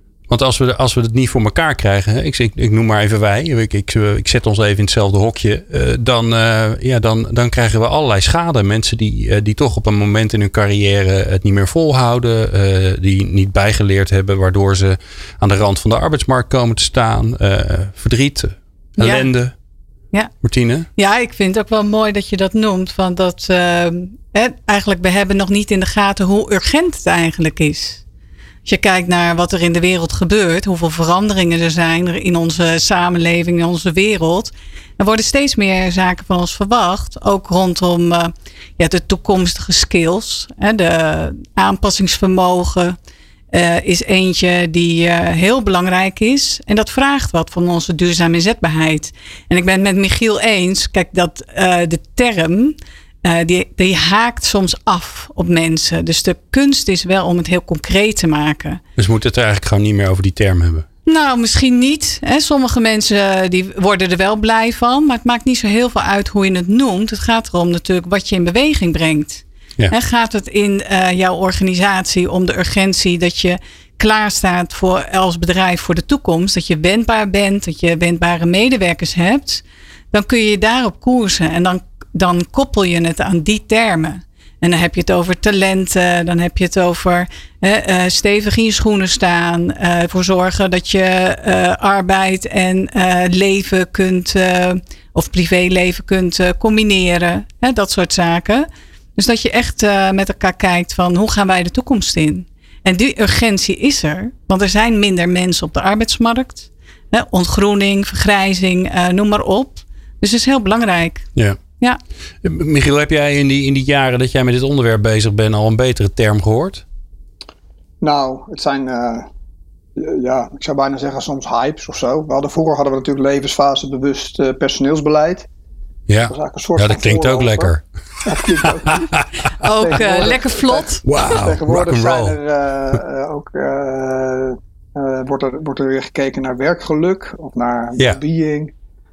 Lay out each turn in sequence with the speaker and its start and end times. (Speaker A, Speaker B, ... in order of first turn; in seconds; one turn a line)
Speaker A: 0.3-19.5
Speaker B: 19.0-19.3
Speaker A: 20.4-20.9
Speaker B: 21.0-28.0
Speaker B: 28.6-43.0
Speaker B: 43.5-58.8
Speaker A: 59.0-60.9
Speaker B: 61.1-111.3
Speaker A: 112.4-116.8
Speaker C: 118.0-119.3
Speaker C: 120.0-125.5
Speaker A: 126.1-127.8
Speaker C: 126.3-127.7
Speaker C: 128.2-138.7
Speaker A: 128.5-130.3
Speaker B: 129.6-131.3
Speaker A: 131.1-132.4